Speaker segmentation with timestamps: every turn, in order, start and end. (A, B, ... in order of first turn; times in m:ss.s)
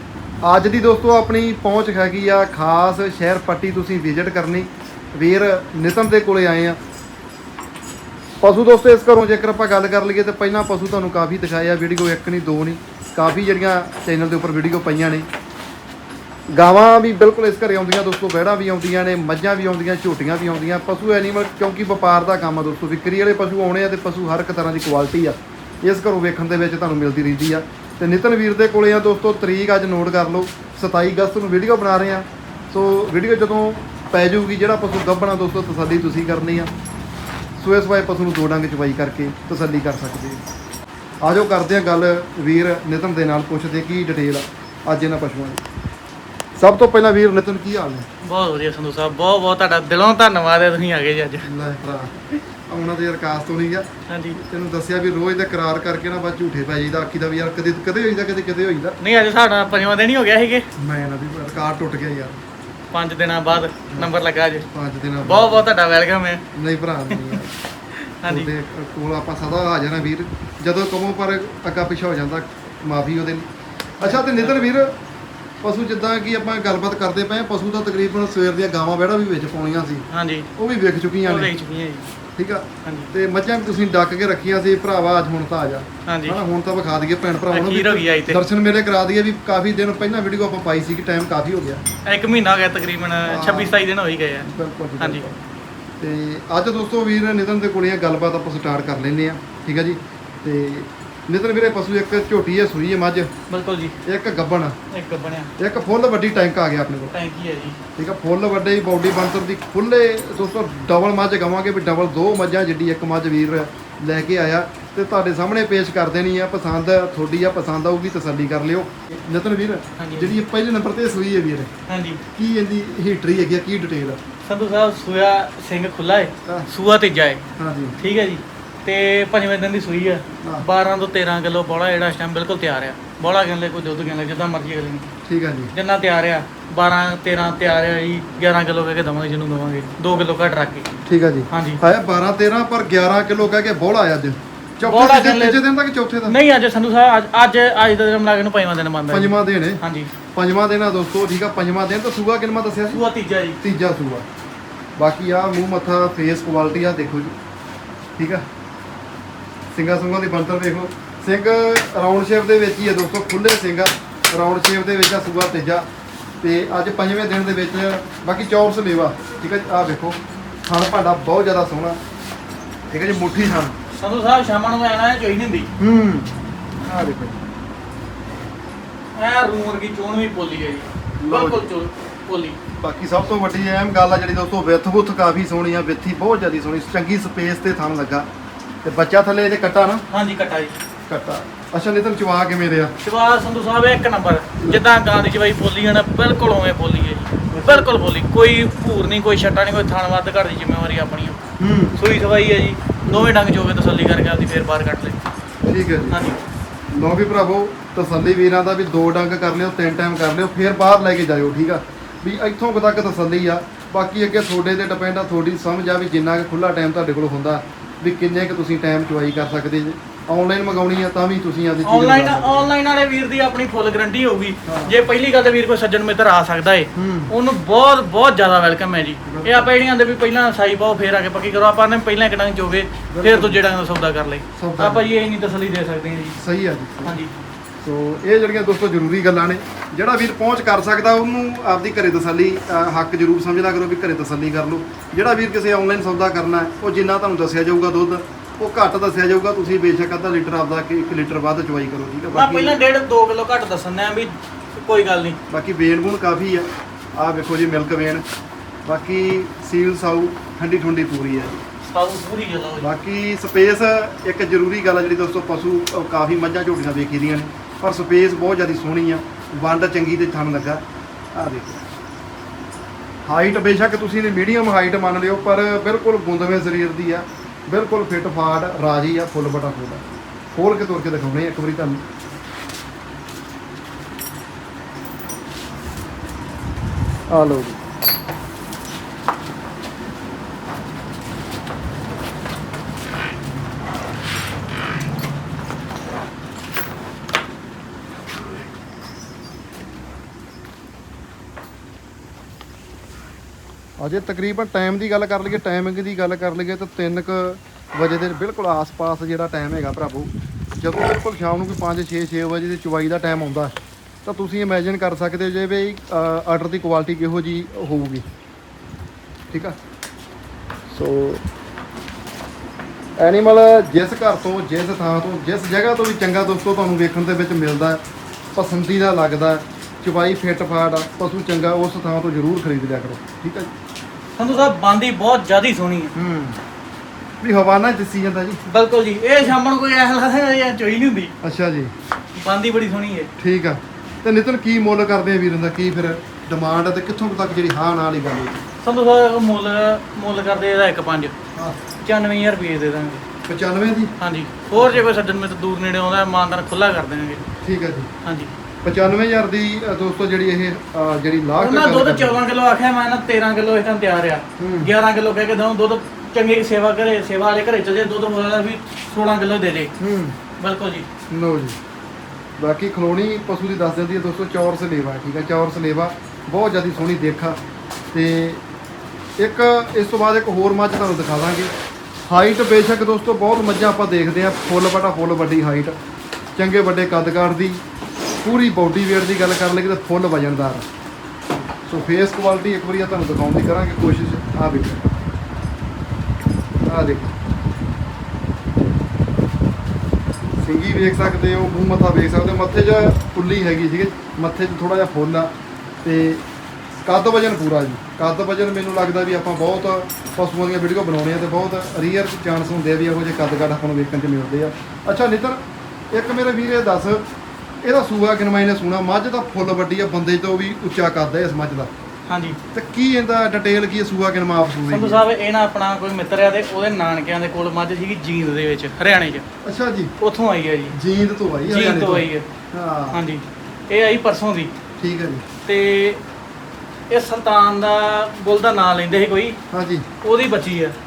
0:00.4-0:06.8 A
0:08.4-0:15.3 A
0:16.5-0:36.7 A
0:37.6-0:40.4 A
0:41.2-0:45.6 A
0:46.6-0:48.1 A
0:48.2-0:51.5 B
0:51.4-0:59.0 A
0:54.1-0:54.4 B
0:59.0-1:00.7 B
1:00.8-1:02.4 A
1:02.9-1:04.7 B
1:04.7-1:05.6 A
1:05.2-1:06.4 B
1:06.5-1:07.6 A
1:07.1-1:07.4 B
1:08.0-1:08.5 B
1:08.3-1:13.5 A
1:14.0-1:14.9 A
1:14.0-1:14.6 B
1:15.6-1:20.1 A
1:20.1-1:20.5 B
1:20.6-1:21.5 A
1:21.2-1:22.1 B
1:22.4-1:31.8 A
1:22.8-1:23.1 B
1:26.1-1:26.4 B
1:27.5-1:28.4 B
1:32.1-1:34.5 B
1:33.3-1:33.8 A
1:34.4-1:35.4 A
1:35.0-1:35.2 B
1:36.0-1:43.3 A
1:43.5-1:44.0 B
1:44.0-1:44.8 A
1:44.9-1:45.5 B
1:45.6-1:47.2 A
1:47.1-1:47.8 B
1:48.0-2:01.7 A
2:00.0-2:00.3 B
2:01.9-2:02.2 B
2:02.3-2:04.2 A
2:04.5-2:07.4 B
2:07.6-2:08.0 A
2:08.0-2:15.1 B
2:15.2-2:15.7 A
2:15.7-2:20.9 B
2:21.1-2:26.4 A
2:21.5-2:21.8 B
2:24.8-2:25.6 B
2:26.3-2:30.1 B
2:29.1-2:29.8 A
2:30.4-2:33.0 A
2:32.9-2:33.6 B
2:33.6-2:34.2 A
2:35.0-2:37.4 A
2:38.2-2:38.4 A
2:39.7-2:45.9 A
2:46.4-2:52.0 A
2:52.9-2:53.8 A
2:54.0-2:55.7 B
2:55.8-2:56.3 A
2:56.8-2:57.4 A
2:59.2-3:02.6 B
3:01.2-3:01.7 A
3:02.8-3:08.3 A
3:08.8-3:10.1 A
3:10.1-3:10.8 B
3:11.1-3:12.9 A
3:13.0-3:21.4 B
3:17.5-3:17.9 A
3:21.6-3:22.0 A
3:22.0-3:25.2 B
3:25.7-3:26.2 A
3:26.1-3:26.4 B
3:26.9-3:42.7 A
3:41.8-3:56.4 B
3:44.7-3:45.0 A
3:47.0-3:47.3 A
3:49.3-3:49.7 A
3:53.1-3:53.6 A
3:54.6-3:55.1 A
3:56.4-3:57.2 A
3:57.0-3:57.3 B
3:57.8-4:12.8 A
4:12.3-4:15.4 B
4:15.5-4:18.2 A
4:18.9-4:21.6 A
4:21.8-4:22.9 B
4:22.8-4:30.8 A
4:31.3-4:31.9 A
4:33.2-4:42.0 A
4:47.3-4:47.8 A
5:04.0-5:18.2 A
5:19.5-5:19.8 A
5:20.9-5:21.4 A
5:23.2-5:28.0 A
5:28.6-5:33.7 A
5:34.4-5:36.1 B
5:36.2-5:36.6 A
5:37.4-5:38.6 A
5:38.7-5:41.3 B
5:41.4-5:41.9 A
5:42.4-5:43.3 B
5:43.4-5:48.6 A
5:48.8-5:51.3 B
5:51.6-5:51.8 A
5:52.0-5:53.2 B
5:53.5-5:54.1 A
5:54.2-5:57.4 B
5:54.8-5:55.0 A
5:57.6-5:58.1 A
5:58.2-5:58.5 B
5:58.8-6:02.4 A
6:01.6-6:09.9 B
6:04.6-6:04.9 A
6:10.0-6:10.4 A
6:10.6-6:11.1 B
6:11.3-6:11.8 A
6:12.6-6:17.6 A
6:18.1-6:18.6 A
6:19.4-6:21.7 A
6:22.3-6:26.0 A
6:26.6-6:27.8 A
6:28.4-6:30.9 A
6:31.9-6:35.0 A
6:36.9-6:37.3 A
6:40.6-6:45.5 A
6:46.0-6:46.4 A
6:47.0-6:57.2 A
6:57.8-7:01.9 A
7:02.3-7:02.6 B
7:02.7-7:05.2 A
7:04.9-7:09.4 B
7:09.6-7:10.1 A
7:10.2-7:11.0 B
7:10.9-7:13.2 A
7:11.7-7:12.4 B
7:13.1-7:14.7 B
7:15.0-7:15.4 A
7:15.7-7:16.2 B
7:17.1-7:19.6 B
7:19.7-7:20.1 A
7:20.2-7:21.0 B